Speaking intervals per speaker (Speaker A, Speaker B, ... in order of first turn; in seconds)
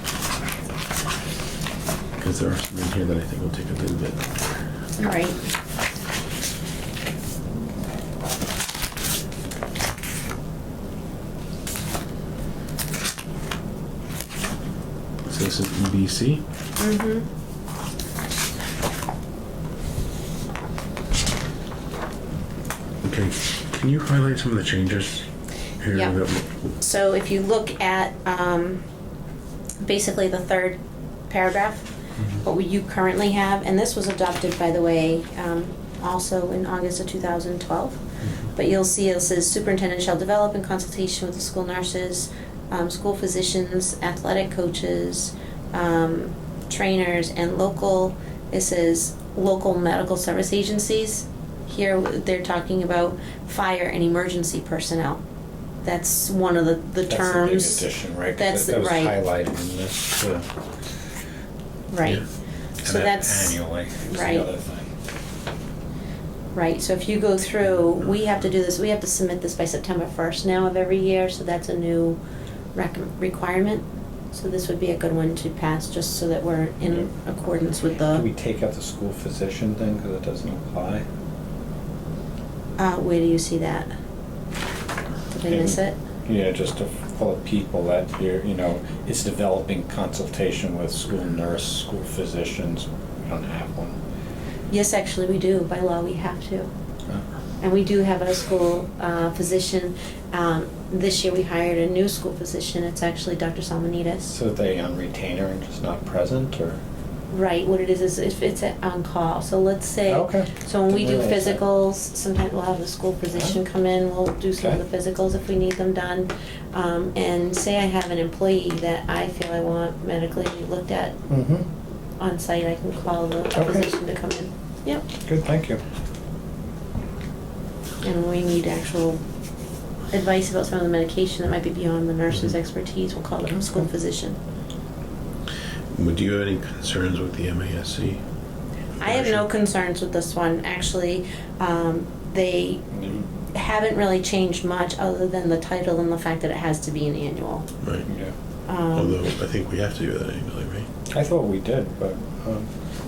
Speaker A: 2.2-4.5, 15.2-16.4, 23.0-25.3, 25.8-26.6, 135.9-138.2, 139.0-139.4, 147.8-148.1, 148.9-150.9
Speaker B: 5.0-5.4, 16.8-17.3, 26.8-28.8, 29.8-30.8, 31.3-38.0, 38.5-55.2, 55.8-59.2, 61.9-62.2, 62.8-64.5, 66.5-72.2, 72.8-78.3, 82.8-83.9, 85.3-86.0, 94.7-96.7, 97.6-104.3, 107.3-121.2, 122.2-125.0, 128.0-129.2, 130.1-134.4, 139.0-142.8, 143.5-147.7, 148.7-149.2
Speaker C: 57.1-60.5, 62.8-64.9, 76.8-77.1, 78.0-81.1, 85.5-94.0, 104.3-106.8, 110.1-111.6, 113.3-113.6, 121.3-121.7, 123.5-123.9, 125.2-125.8, 142.9-143.3, 148.1-148.3, 151.1-152.7